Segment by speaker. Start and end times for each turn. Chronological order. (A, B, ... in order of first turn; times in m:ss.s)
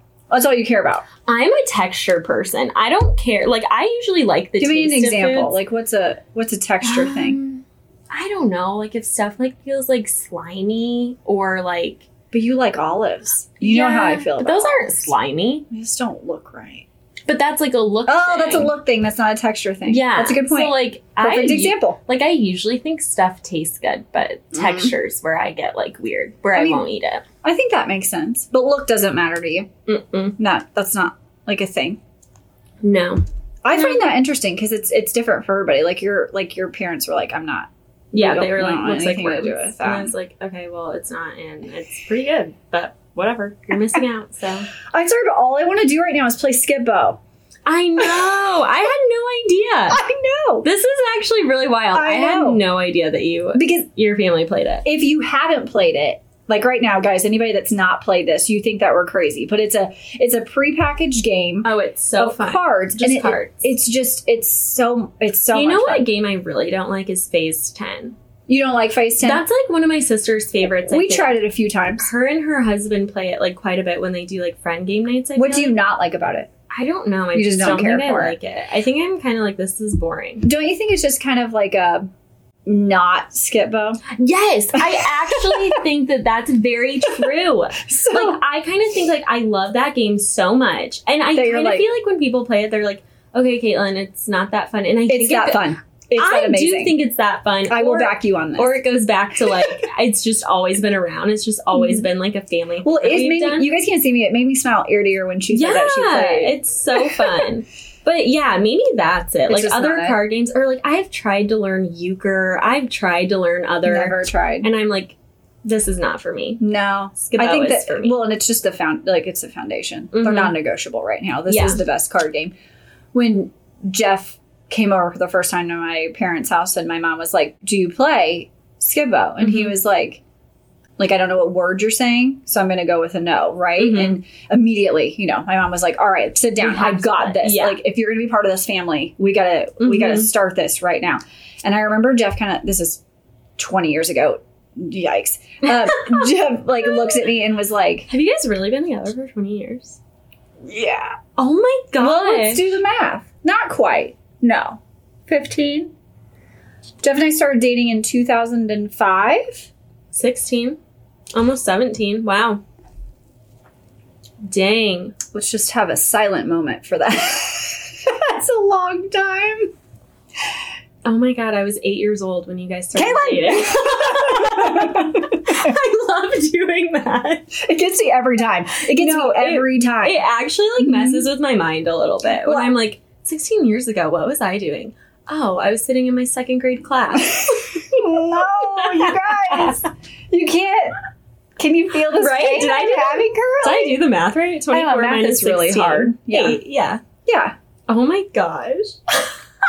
0:00.3-0:01.1 A
0:01.3-0:05.6 B
0:04.6-0:07.4 A
0:06.8-0:12.0 B
0:12.3-0:15.1 A
0:13.6-0:15.7 B
0:15.7-0:16.9 A
0:17.3-0:18.7 B
0:18.1-0:22.0 A
0:19.9-0:27.2 B
0:24.5-0:24.9 A
0:26.5-0:26.9 A
0:27.4-0:29.7 A
0:29.9-0:30.4 B
0:30.4-0:32.0 A
0:32.8-0:34.1 B
0:33.6-0:40.1 A
0:38.1-0:44.7 B
0:44.9-0:47.2 A
0:47.7-0:50.0 B
0:48.0-0:48.3 A
0:49.9-0:50.7 A
0:50.6-0:54.8 B
0:51.9-0:52.6 A
0:53.6-0:53.9 A
0:54.8-1:06.1 A
1:01.6-1:03.7 B
1:05.5-1:08.2 B
1:08.5-1:09.4 A
1:09.2-1:11.4 B
1:10.9-1:12.1 A
1:12.0-1:15.8 B
1:15.4-1:16.5 A
1:16.7-1:20.5 B
1:17.3-1:18.4 A
1:20.4-1:22.1 A
1:22.7-1:24.0 A
1:24.1-1:43.7 B
1:24.8-1:25.8 A
1:27.8-1:28.4 A
1:31.4-1:31.9 A
1:35.1-1:37.0 A
1:37.7-1:38.8 A
1:39.5-1:39.8 A
1:41.8-1:42.1 A
1:42.8-1:47.4 A
1:45.5-1:56.6 B
1:49.5-1:50.2 A
1:53.9-1:54.7 A
1:56.6-2:02.5 A
1:57.2-1:58.2 B
2:00.1-2:00.5 B
2:01.5-2:01.8 B
2:03.1-2:10.2 A
2:09.4-2:09.7 B
2:11.0-2:23.0 A
2:13.8-2:14.2 B
2:16.6-2:17.8 B
2:19.8-2:20.3 B
2:23.6-2:28.1 A
2:25.7-2:26.3 B
2:28.1-2:30.0 B
2:30.6-2:31.2 A
2:31.4-2:32.7 B
2:32.0-2:35.9 A
2:37.0-2:39.7 A
2:40.1-2:40.8 B
2:41.4-2:42.6 B
2:44.5-2:45.2 B
2:45.3-2:49.7 A
2:51.0-2:57.6 B
2:52.9-2:55.8 A
2:57.6-3:00.2 A
2:58.8-3:09.9 B
3:00.8-3:01.3 A
3:02.3-3:02.7 A
3:07.2-3:11.0 A
3:11.6-3:14.0 A
3:12.1-3:17.0 B
3:14.7-3:16.6 A
3:17.3-3:17.5 A
3:17.9-3:19.4 B